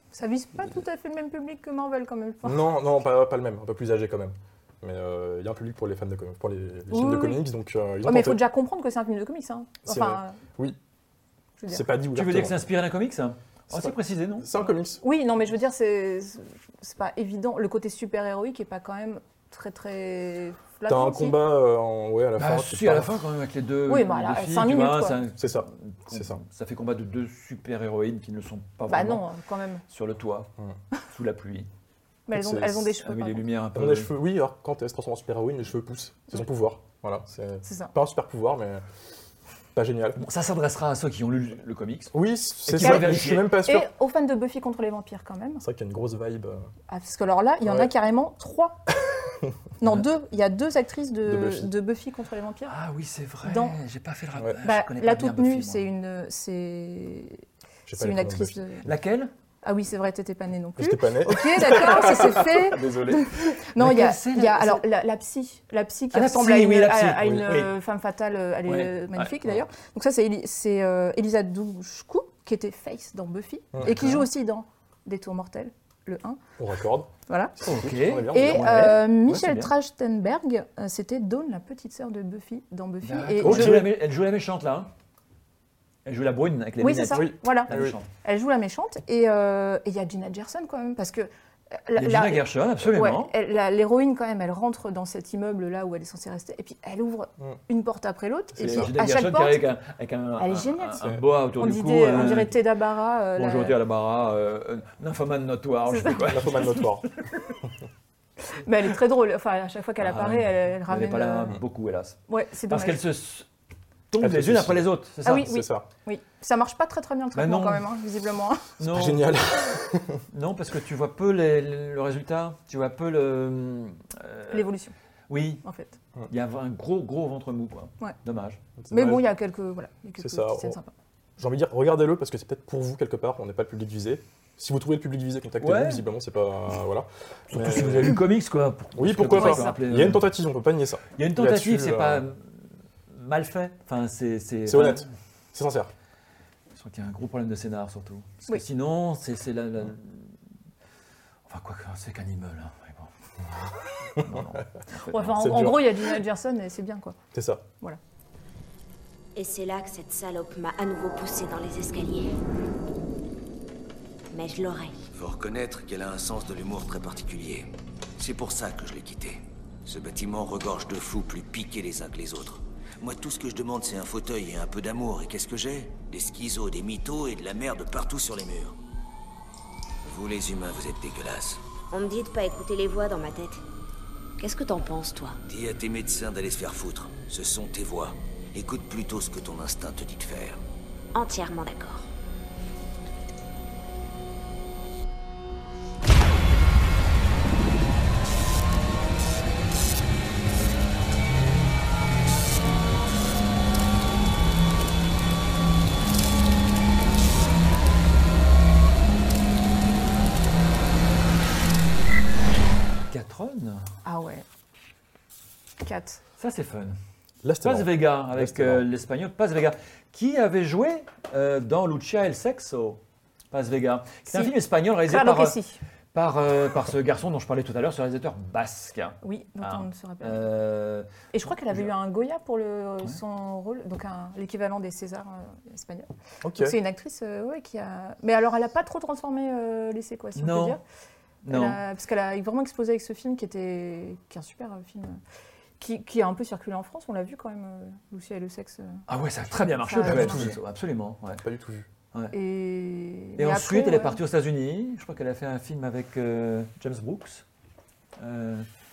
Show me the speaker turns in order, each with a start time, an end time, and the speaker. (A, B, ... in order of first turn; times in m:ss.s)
0:00.1-0:02.6 A
0:02.4-0:08.4 B
0:06.9-0:07.4 A
0:08.0-0:10.4 A
0:09.8-0:10.8 B
0:11.7-0:12.6 B
0:12.1-0:14.5 C
0:13.7-0:15.0 B
0:15.0-0:21.4 A
0:20.9-0:23.2 B
0:22.4-0:29.2 C
0:23.9-0:25.2 A
0:25.4-0:26.4 B
0:28.9-0:29.8 A
0:29.9-0:30.5 C
0:31.1-0:31.7 C
0:32.3-0:33.4 A
0:32.3-0:33.0 B
0:33.0-0:34.1 C
0:33.7-0:38.8 B
0:37.6-0:37.9 A
0:39.7-0:40.2 B
0:40.2-0:42.1 C
0:42.1-0:43.9 B
0:42.6-0:43.5 C
0:42.8-0:43.1 A
0:43.6-0:45.6 A
0:45.6-0:46.7 B
0:46.9-0:48.8 A
0:47.6-0:47.9 B
0:49.8-0:52.7 A
0:51.2-0:51.7 B
0:52.7-0:55.9 C
0:53.4-0:53.8 A
0:54.6-0:57.4 A
0:57.9-0:58.8 B
0:57.9-0:58.9 A
0:58.8-0:59.3 C
0:59.6-1:16.4 A
1:00.8-1:03.6 B
1:03.8-1:04.8 C
1:06.1-1:07.7 C
1:07.2-1:07.5 B
1:08.6-1:09.3 C
1:13.8-1:14.3 C
1:16.6-1:18.7 B
1:17.3-1:17.5 A
1:17.6-1:19.7 C
1:18.3-1:23.9 A
1:23.0-1:24.9 C
1:23.4-1:23.9 B
1:26.0-1:28.1 C
1:26.8-1:27.7 A
1:27.7-1:28.0 B
1:28.2-1:39.6 A
1:32.0-1:33.3 C
1:38.5-1:38.9 B
1:38.6-1:42.6 C
1:40.4-1:43.7 A
1:43.4-1:47.6 C
1:45.9-1:46.4 A
1:46.2-1:47.1 B
1:48.5-1:51.6 A
1:50.0-1:53.5 C
1:52.3-1:53.0 A
1:54.1-1:55.5 C
1:54.2-1:55.9 B
1:55.2-1:58.7 A
1:57.3-1:57.9 C
1:58.8-1:59.3 C
1:58.8-2:00.2 B
2:00.3-2:04.7 C
2:04.5-2:04.9 A
2:05.3-2:05.6 C
2:05.6-2:05.9 A
2:06.3-2:08.6 C
2:08.8-2:09.3 B
2:08.9-2:10.9 A
2:10.2-2:10.8 B
2:11.4-2:18.2 B
2:15.6-2:16.0 C
2:17.5-2:20.3 C
2:19.0-2:22.2 B
2:19.4-2:19.7 A
2:21.2-2:22.5 C
2:23.1-2:25.1 C
2:24.7-2:25.9 B
2:26.7-2:30.3 C
2:31.4-2:35.3 C
2:34.2-2:34.6 B
2:35.1-2:37.2 A
2:35.3-2:35.9 B
2:37.3-2:37.6 B
2:39.4-2:42.3 D
2:44.3-2:44.9 D
2:45.1-2:58.8 E
3:00.0-3:01.6 E
3:01.9-3:03.6 D
3:04.4-3:05.4 D
3:05.4-3:10.6 E
3:11.1-3:12.1 D
3:33.1-3:33.9 C
3:34.0-3:34.4 A
3:35.8-3:36.2 A
3:36.4-3:37.0 C
3:37.4-3:38.8 B
3:37.6-3:43.0 C
3:43.5-3:45.6 C
3:45.1-3:45.8 A
3:46.1-3:51.9 C
3:49.2-3:50.4 A
3:51.3-4:00.8 A
3:56.4-3:56.8 B
4:00.4-4:00.8 C
4:01.4-4:01.8 C
4:01.5-4:05.2 A
4:05.8-4:09.0 A
4:09.1-4:11.4 C
4:09.8-4:10.5 A
4:10.0-4:10.6 B
4:11.4-4:11.9 B
4:12.3-4:14.2 A
4:13.4-4:17.4 C
4:18.2-4:18.7 C